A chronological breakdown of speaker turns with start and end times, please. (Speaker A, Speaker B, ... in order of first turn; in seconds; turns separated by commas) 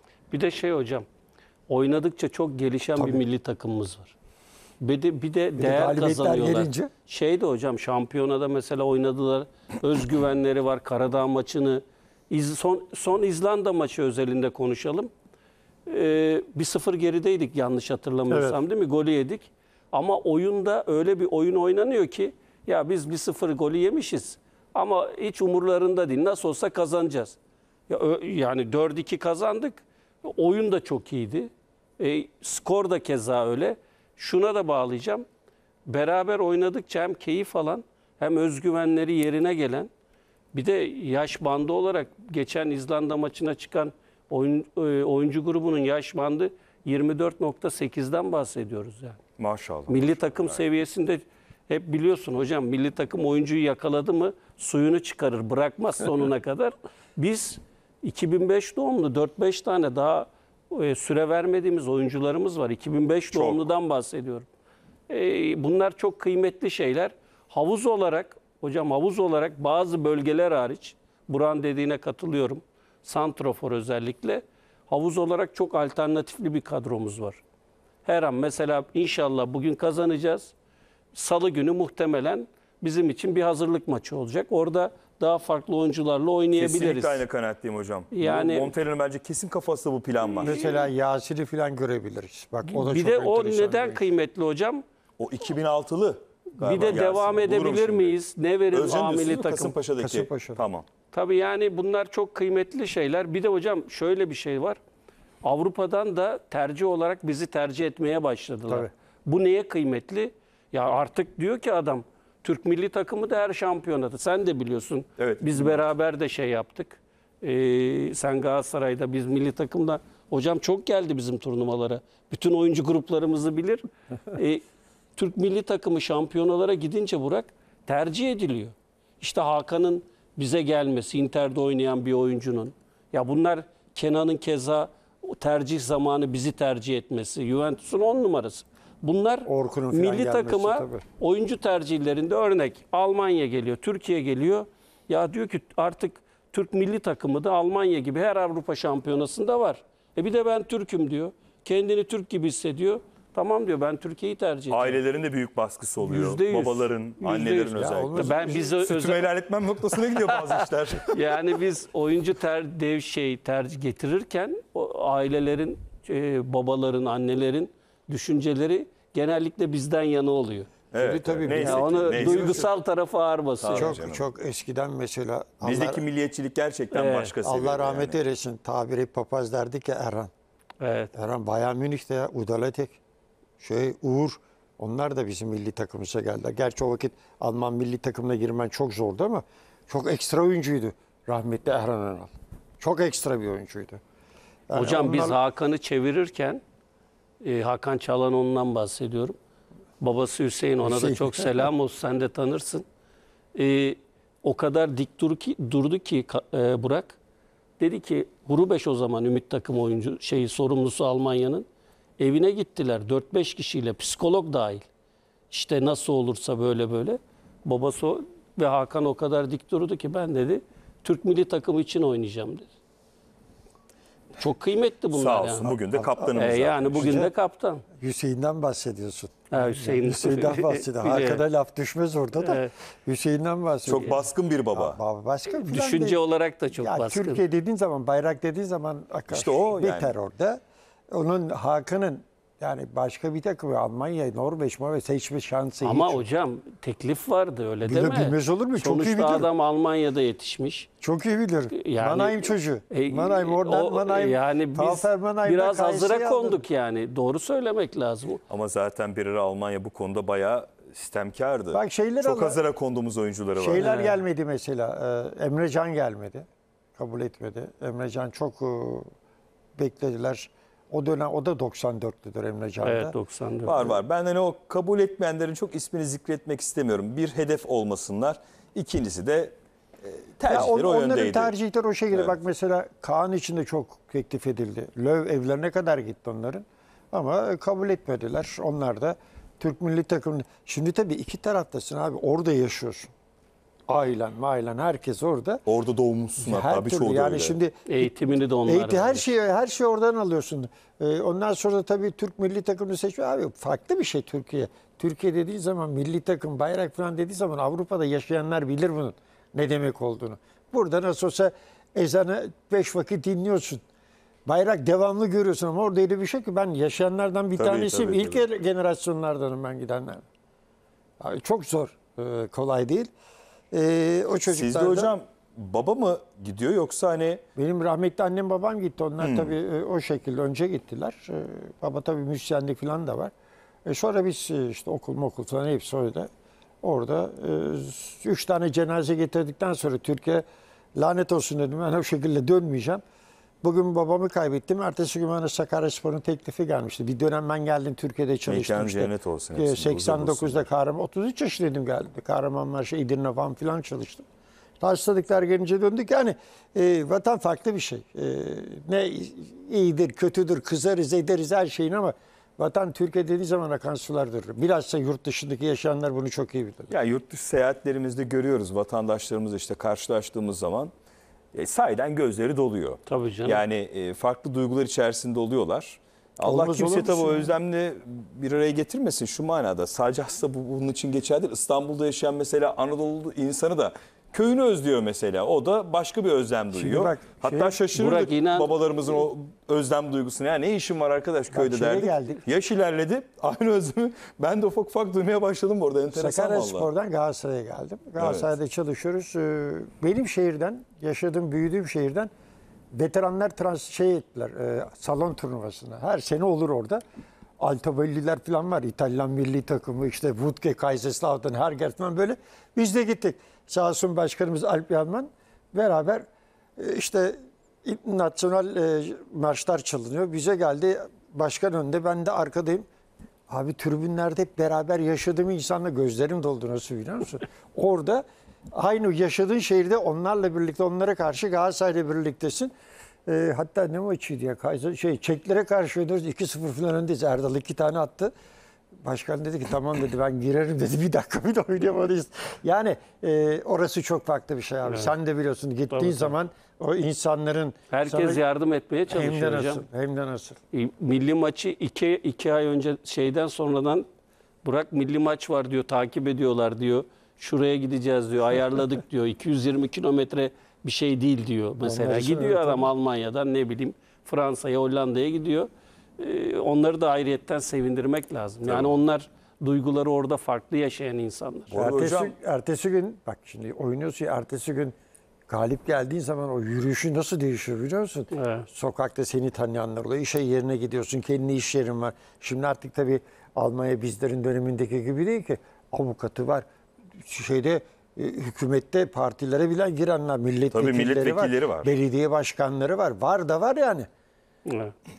Speaker A: 0.3-1.1, Speaker A: 1.7-4.1, Speaker B: 3.0-3.2, Speaker A: 4.8-15.1, Speaker B: 5.6-6.9, Speaker A: 15.9-27.4, Speaker B: 18.3-18.6, Speaker A: 27.9-35.3, Speaker A: 35.9-39.9, Speaker A: 40.5-49.2, Speaker C: 49.4-50.6, Speaker A: 49.9-64.5, Speaker C: 63.3-63.6, Speaker A: 65.1-77.4, Speaker A: 78.0-80.5, Speaker A: 81.1-87.2, Speaker C: 86.6-90.8, Speaker A: 88.1-88.7, Speaker B: 90.4-94.1, Speaker A: 92.7-94.8, Speaker C: 95.2-98.2, Speaker A: 96.6-99.8, Speaker C: 98.7-100.9, Speaker B: 100.0-100.6, Speaker A: 101.1-104.8, Speaker A: 105.4-124.6, Speaker C: 115.2-115.9, Speaker A: 125.2-155.0, Speaker B: 139.5-141.0, Speaker C: 154.7-161.1, Speaker A: 156.0-159.2, Speaker B: 157.7-158.7, Speaker A: 160.0-160.5, Speaker A: 161.1-173.9, Speaker C: 170.9-172.7, Speaker B: 171.0-172.6, Speaker C: 173.6-174.2, Speaker B: 173.7-176.0, Speaker C: 175.6-178.2, Speaker A: 176.9-177.3, Speaker B: 177.4-180.3, Speaker A: 180.8-181.1, Speaker B: 181.2-183.0, Speaker B: 183.6-194.0, Speaker B: 194.7-195.4, Speaker A: 194.8-196.6, Speaker A: 197.4-199.4, Speaker A: 200.0-202.8, Speaker B: 200.8-201.7, Speaker A: 203.6-207.2, Speaker A: 207.8-211.7, Speaker A: 212.2-214.9, Speaker A: 215.5-222.7, Speaker A: 224.4-225.8, Speaker C: 225.1-227.3, Speaker B: 225.9-226.3, Speaker A: 226.3-227.8, Speaker B: 226.9-227.3, Speaker B: 228.0-234.2, Speaker A: 229.5-231.4, Speaker A: 232.4-232.7, Speaker C: 233.8-235.0, Speaker B: 234.7-236.2, Speaker A: 235.6-237.4, Speaker B: 236.7-246.2, Speaker C: 239.3-240.2, Speaker A: 245.8-250.9, Speaker B: 247.8-249.5, Speaker B: 251.0-256.7, Speaker A: 251.7-258.4, Speaker C: 258.5-263.9, Speaker B: 261.7-262.6, Speaker B: 263.6-269.1, Speaker A: 263.8-264.2, Speaker B: 269.8-273.2, Speaker A: 272.8-273.9, Speaker C: 273.6-281.5, Speaker B: 280.5-293.1, Speaker C: 282.1-282.4, Speaker B: 293.9-295.6, Speaker C: 295.7-297.6, Speaker B: 296.4-298.1, Speaker A: 297.9-299.2, Speaker B: 298.6-313.8, Speaker B: 314.4-320.2, Speaker C: 317.6-318.4, Speaker B: 321.2-323.1, Speaker B: 323.7-325.1, Speaker C: 324.5-327.4, Speaker B: 327.6-333.3, Speaker C: 329.2-329.5, Speaker B: 333.9-336.3, Speaker B: 336.8-340.4, Speaker B: 341.0-343.0, Speaker B: 343.6-354.2, Speaker C: 348.5-350.7, Speaker B: 354.8-366.9, Speaker C: 366.9-370.9, Speaker C: 371.5-396.9, Speaker A: 373.1-373.6, Speaker B: 376.4-377.5, Speaker B: 386.7-387.8, Speaker A: 387.9-388.7, Speaker B: 391.5-392.4, Speaker B: 396.1-402.3, Speaker C: 398.2-398.5, Speaker B: 402.9-407.0, Speaker B: 407.6-416.2, Speaker B: 416.8-422.9, Speaker B: 423.5-432.7, Speaker B: 433.3-438.3, Speaker B: 439.0-448.4, Speaker A: 444.9-445.1, Speaker A: 445.9-446.3, Speaker A: 447.9-449.8, Speaker B: 449.1-450.6, Speaker A: 450.7-454.1, Speaker A: 454.6-471.7, Speaker B: 461.8-462.9, Speaker C: 468.6-468.9, Speaker C: 471.7-472.4, Speaker B: 471.7-474.9, Speaker B: 475.5-486.7, Speaker A: 478.4-478.7, Speaker B: 487.2-494.1, Speaker C: 490.7-491.9, Speaker A: 494.7-494.9